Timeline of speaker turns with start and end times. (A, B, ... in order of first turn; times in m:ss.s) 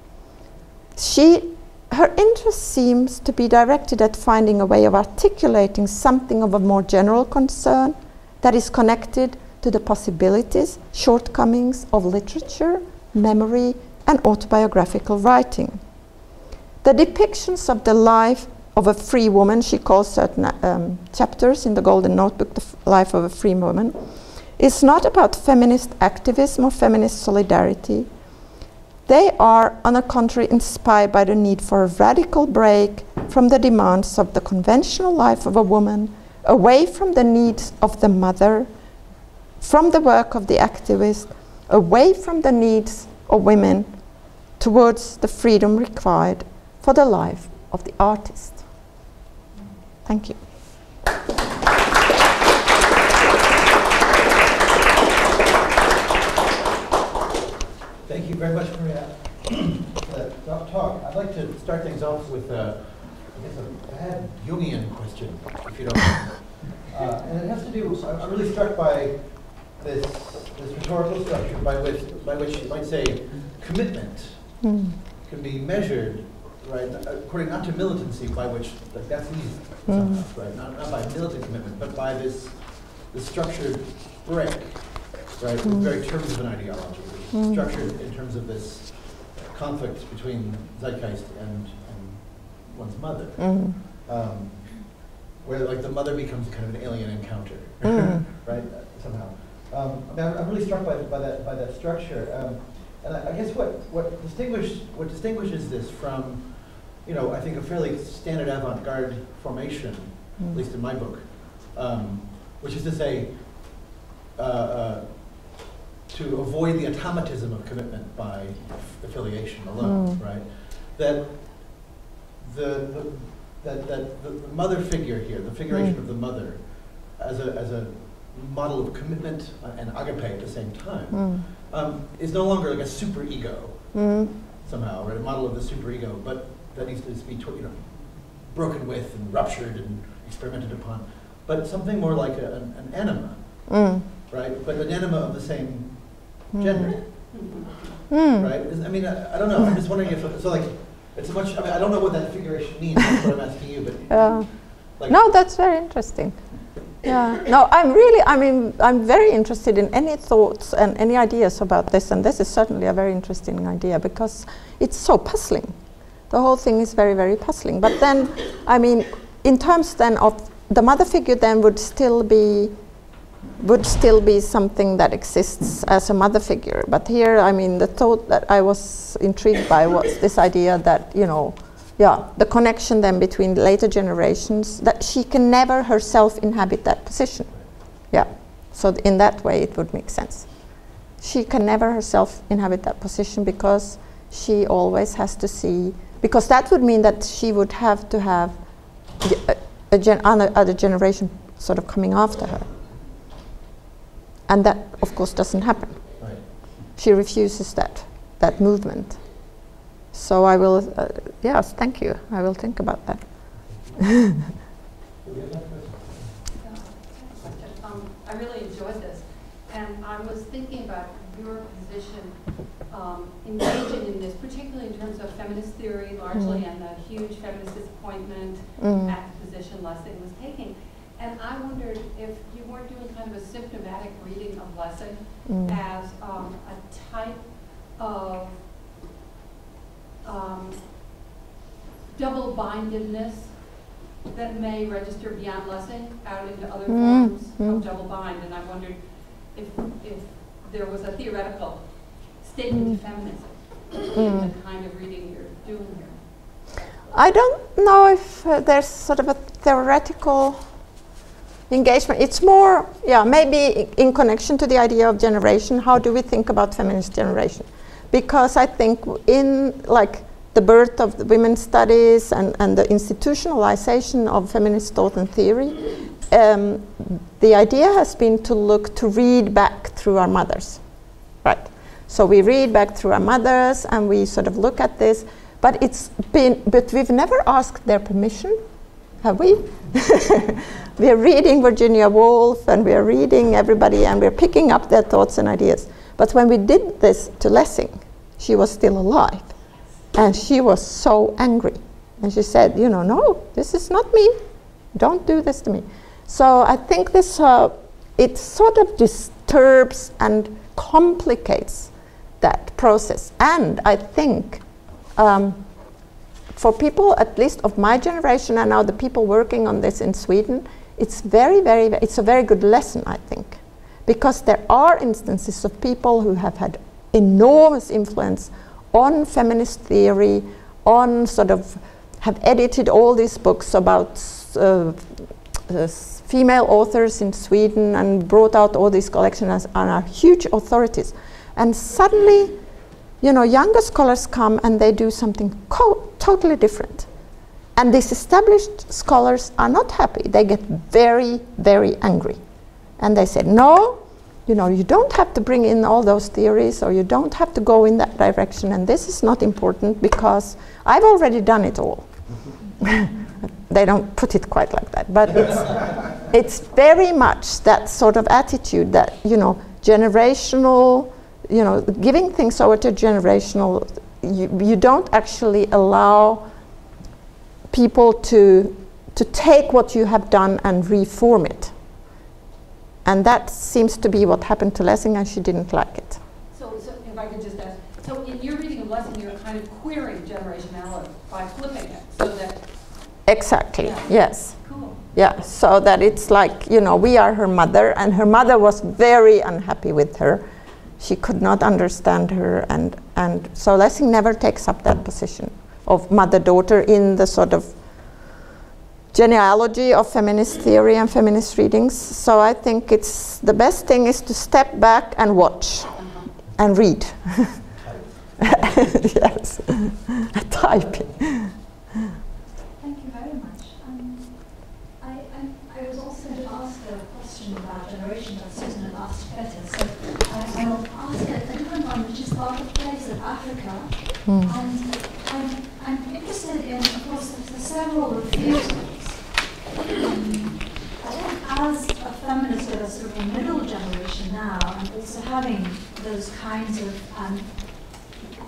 0:01.0-0:15.8 A
0:16.8-0:24.0 A
0:24.6-0:28.1 A
0:29.1-0:38.7 A
0:39.6-0:43.9 A
0:44.6-0:48.6 A
0:50.0-0:50.4 A
0:58.0-1:14.7 B
1:14.6-1:15.0 A
1:15.2-2:27.5 B
1:19.9-1:20.2 A
1:27.3-1:27.6 A
1:33.4-1:33.8 A
1:37.9-1:38.2 A
1:59.8-2:00.2 A
2:05.7-2:06.0 A
2:11.1-2:11.4 A
2:13.9-2:14.3 A
2:23.7-2:24.1 A
2:26.5-2:27.2 A
2:27.5-2:27.8 C
2:28.1-2:28.5 A
2:28.3-2:35.2 B
2:34.1-2:45.8 A
2:46.3-2:52.7 A
2:53.6-3:18.6 A
3:19.1-3:22.9 A
3:24.5-3:29.6 A
3:26.2-3:26.5 B
3:30.1-3:34.0 A
3:33.6-3:34.0 B
3:35.2-3:36.4 B
3:36.6-3:58.7 C
3:46.3-3:46.6 A
3:48.8-3:49.2 A
3:55.4-3:55.8 A
4:00.2-4:01.1 C
4:02.1-4:16.8 C
4:06.9-4:07.8 A
4:12.7-4:13.0 A
4:14.1-4:14.5 A
4:17.1-4:20.7 A
4:21.7-4:40.9 A
4:41.4-4:48.6 A
4:49.1-4:59.5 A
5:00.1-5:04.4 A
5:04.9-5:15.7 A
5:16.5-5:42.6 A
5:43.2-5:47.1 A
5:47.7-5:52.4 A
5:53.0-6:16.5 A
6:17.7-6:21.8 A
6:23.0-6:26.2 A
6:26.5-6:33.2 C
6:33.2-6:40.4 A
6:33.8-6:35.2 C
6:41.0-6:48.4 A
6:49.1-6:57.8 A
6:55.9-6:56.3 C
6:57.7-6:59.0 B
6:58.5-7:01.7 A
7:02.8-7:28.1 D
7:14.2-7:14.6 A